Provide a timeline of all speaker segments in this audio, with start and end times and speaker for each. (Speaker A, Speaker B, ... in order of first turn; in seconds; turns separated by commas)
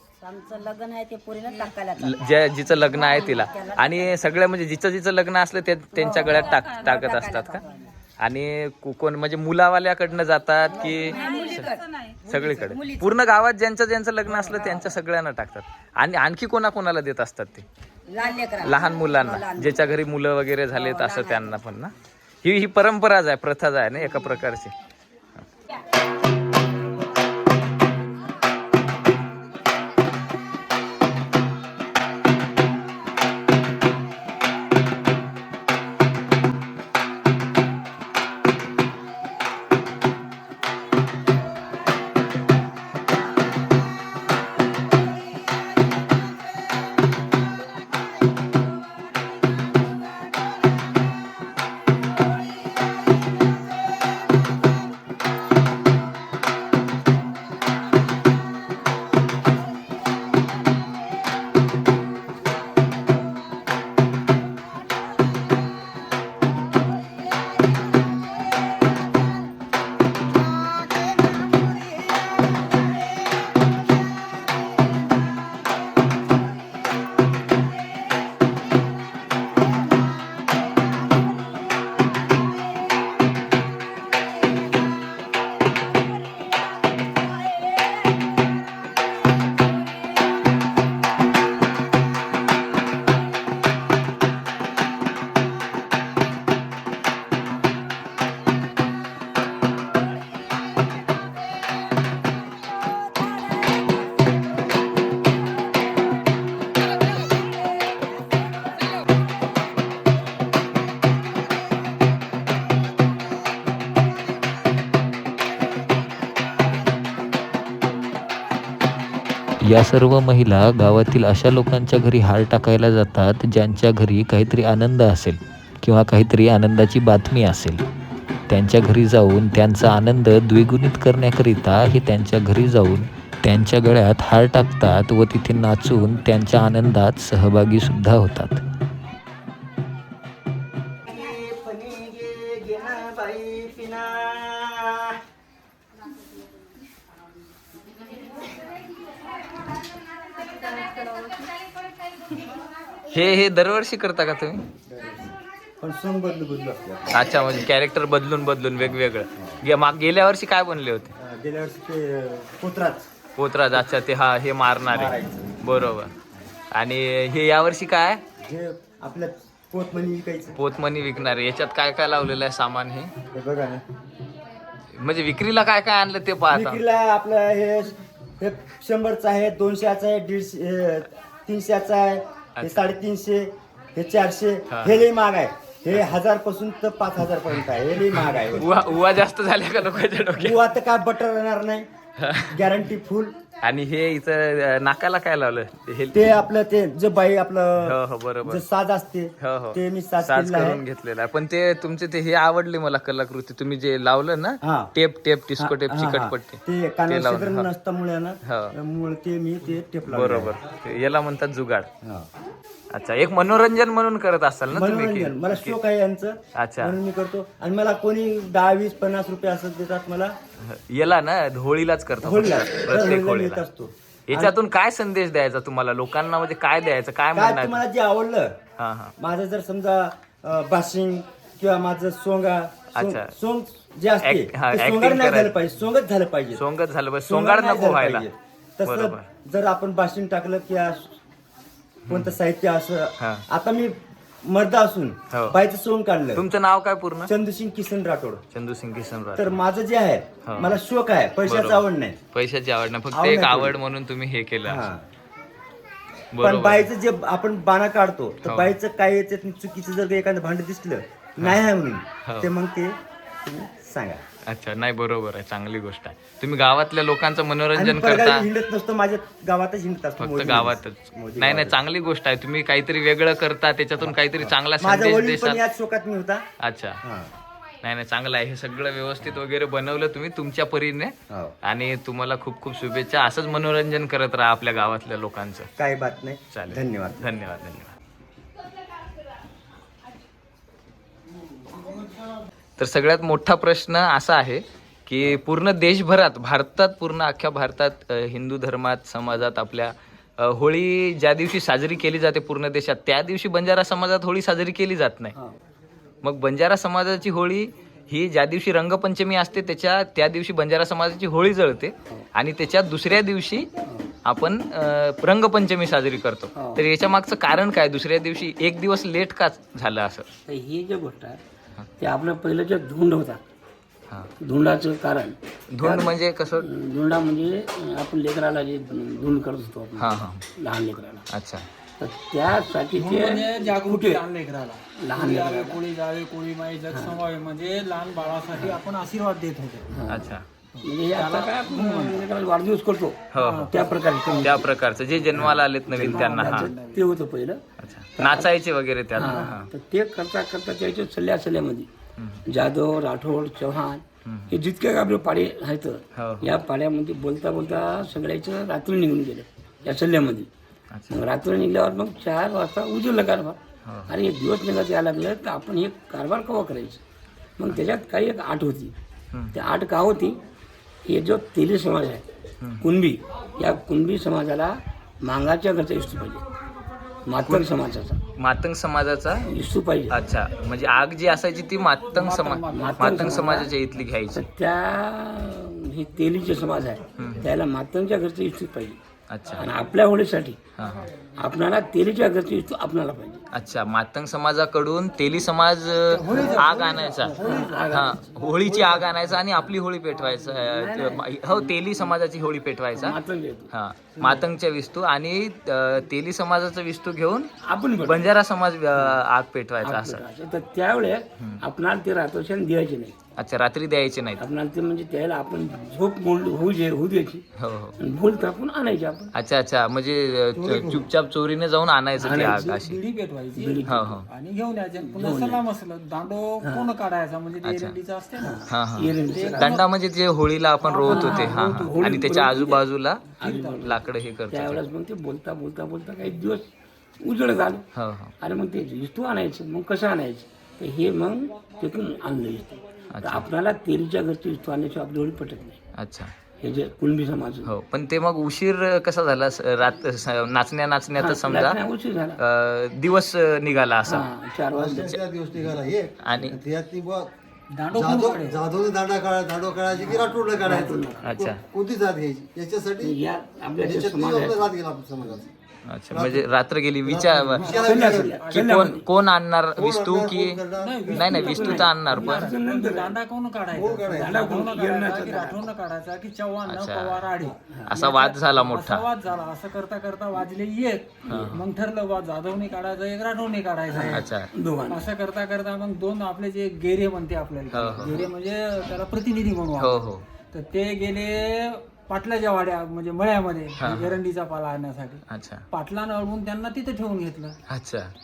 Speaker A: 0.1-2.3, Speaker B: 2.0-7.6, Speaker A: 2.8-4.2, Speaker A: 5.9-7.9, Speaker B: 8.2-11.7, Speaker A: 10.9-13.2, Speaker B: 12.3-17.6, Speaker A: 18.1-19.9, Speaker B: 18.6-24.7, Speaker A: 20.7-21.6, Speaker C: 119.6-127.8, Speaker C: 128.5-138.6, Speaker D: 141.1-145.2, Speaker B: 153.1-154.6, Speaker D: 154.9-157.1, Speaker B: 157.1-161.1, Speaker D: 161.2-163.1, Speaker B: 163.4-166.1, Speaker D: 164.9-165.5, Speaker B: 166.7-168.2, Speaker D: 168.4-170.6, Speaker B: 170.6-173.1, Speaker D: 173.3-173.8, Speaker B: 174.9-176.8, Speaker D: 176.5-188.7, Speaker B: 182.6-182.9, Speaker B: 184.7-185.0, Speaker B: 188.6-190.6, Speaker D: 190.4-191.9, Speaker B: 192.2-192.6, Speaker D: 192.5-193.3, Speaker B: 193.6-196.2, Speaker D: 196.1-200.8, Speaker B: 197.8-198.6, Speaker B: 199.4-207.7, Speaker D: 204.6-204.9, Speaker D: 205.6-210.6, Speaker B: 208.4-208.8, Speaker B: 210.1-211.9, Speaker D: 212.0-212.3, Speaker B: 212.9-215.8, Speaker D: 214.7-220.4, Speaker B: 216.6-216.9, Speaker B: 220.6-223.6, Speaker D: 222.2-224.6, Speaker B: 224.3-227.8, Speaker D: 227.3-228.6, Speaker B: 228.8-229.1, Speaker D: 229.2-236.6, Speaker B: 232.9-233.3, Speaker B: 234.2-235.6, Speaker B: 236.6-238.3, Speaker D: 237.2-241.2, Speaker B: 238.8-239.3, Speaker D: 242.1-246.4, Speaker B: 242.1-242.4, Speaker B: 243.2-243.4, Speaker B: 245.3-245.6, Speaker B: 246.4-247.3, Speaker D: 247.2-248.4, Speaker B: 248.5-249.6, Speaker D: 249.4-252.2, Speaker B: 250.4-250.8, Speaker B: 251.4-254.9, Speaker D: 253.1-253.8, Speaker D: 254.7-255.0, Speaker B: 256.3-256.9, Speaker D: 256.4-264.2, Speaker B: 258.4-258.8, Speaker B: 262.2-262.5, Speaker B: 264.5-268.5, Speaker D: 267.8-271.8, Speaker B: 270.2-275.6, Speaker D: 274.0-276.4, Speaker B: 276.6-277.0, Speaker D: 277.0-277.3, Speaker B: 277.8-285.7, Speaker D: 281.3-281.6, Speaker D: 285.8-287.2, Speaker B: 286.5-287.9, Speaker B: 292.8-305.3, Speaker B: 306.2-313.7, Speaker B: 314.2-320.3, Speaker E: 316.6-316.8, Speaker E: 320.5-321.4, Speaker E: 322.0-323.4, Speaker E: 324.4-331.3, Speaker B: 325.7-326.7, Speaker B: 330.0-330.4, Speaker B: 331.3-331.7, Speaker E: 332.0-334.2, Speaker F: 333.0-339.9, Speaker E: 335.0-335.8, Speaker E: 336.9-337.2, Speaker E: 339.9-344.7, Speaker B: 340.1-340.4, Speaker F: 340.8-342.3, Speaker B: 343.3-343.7, Speaker F: 343.4-344.0, Speaker B: 344.4-346.7, Speaker E: 345.3-347.6, Speaker F: 346.0-347.1, Speaker B: 347.8-349.7, Speaker E: 348.2-348.5, Speaker E: 349.1-351.9, Speaker B: 352.2-352.4, Speaker E: 352.5-360.5, Speaker B: 354.2-354.5, Speaker B: 356.1-356.5, Speaker B: 360.9-361.2, Speaker E: 361.1-367.0, Speaker B: 363.9-364.1, Speaker E: 367.6-368.9, Speaker E: 369.5-370.4, Speaker E: 371.1-372.2, Speaker E: 372.8-376.4, Speaker E: 377.3-378.2, Speaker B: 377.4-377.7, Speaker B: 378.4-379.5, Speaker E: 379.5-380.2, Speaker B: 380.1-384.4, Speaker F: 382.1-383.6, Speaker E: 382.7-383.7, Speaker E: 384.3-389.0, Speaker B: 387.2-387.5, Speaker B: 389.3-389.8, Speaker E: 389.5-390.6, Speaker B: 390.8-391.1, Speaker E: 391.4-393.4, Speaker B: 393.5-403.2, Speaker F: 396.1-398.0, Speaker E: 396.3-396.8, Speaker E: 397.4-399.1, Speaker E: 400.6-401.7, Speaker E: 402.9-403.7, Speaker B: 403.7-407.5, Speaker E: 407.6-408.3, Speaker B: 408.0-410.2, Speaker E: 409.8-413.2, Speaker B: 413.4-414.4, Speaker E: 414.4-417.4, Speaker B: 417.6-418.0, Speaker E: 418.0-419.3, Speaker B: 419.3-423.0, Speaker G: 420.7-421.0, Speaker E: 422.2-422.7, Speaker F: 422.3-428.6, Speaker E: 423.6-424.2, Speaker B: 423.9-424.3, Speaker E: 425.0-425.6, Speaker E: 426.6-426.9, Speaker B: 427.6-428.0, Speaker E: 428.4-429.9, Speaker B: 428.7-433.3, Speaker F: 429.3-429.9, Speaker F: 430.8-431.9, Speaker E: 431.0-432.8, Speaker E: 433.4-436.7, Speaker F: 433.4-433.9, Speaker B: 433.8-434.8, Speaker E: 437.2-437.9, Speaker B: 437.9-438.3, Speaker E: 438.4-445.8, Speaker B: 443.1-443.5, Speaker B: 446.0-446.3, Speaker E: 446.6-447.7, Speaker B: 447.6-451.8, Speaker E: 451.2-452.4, Speaker B: 452.4-454.3, Speaker E: 454.1-455.2, Speaker G: 454.8-457.3, Speaker B: 456.2-456.6, Speaker F: 457.7-458.6, Speaker G: 457.9-463.2, Speaker E: 460.0-461.2, Speaker B: 461.2-461.6, Speaker E: 463.0-464.6, Speaker G: 463.8-465.5, Speaker B: 465.9-467.7, Speaker G: 466.1-466.4, Speaker G: 467.1-468.4, Speaker F: 467.6-468.8, Speaker E: 467.6-469.0, Speaker B: 468.5-472.5, Speaker G: 469.8-471.1, Speaker F: 470.8-484.3, Speaker E: 471.1-473.2, Speaker G: 473.8-474.4, Speaker E: 474.1-475.7, Speaker B: 476.7-477.3, Speaker E: 477.4-477.9, Speaker B: 477.9-479.1, Speaker B: 481.3-481.6, Speaker E: 483.9-485.1, Speaker B: 484.1-484.5, Speaker F: 484.9-490.0, Speaker B: 487.7-488.3, Speaker B: 489.8-490.2, Speaker F: 490.5-497.6, Speaker B: 493.8-494.2, Speaker B: 495.3-495.7, Speaker B: 497.7-498.1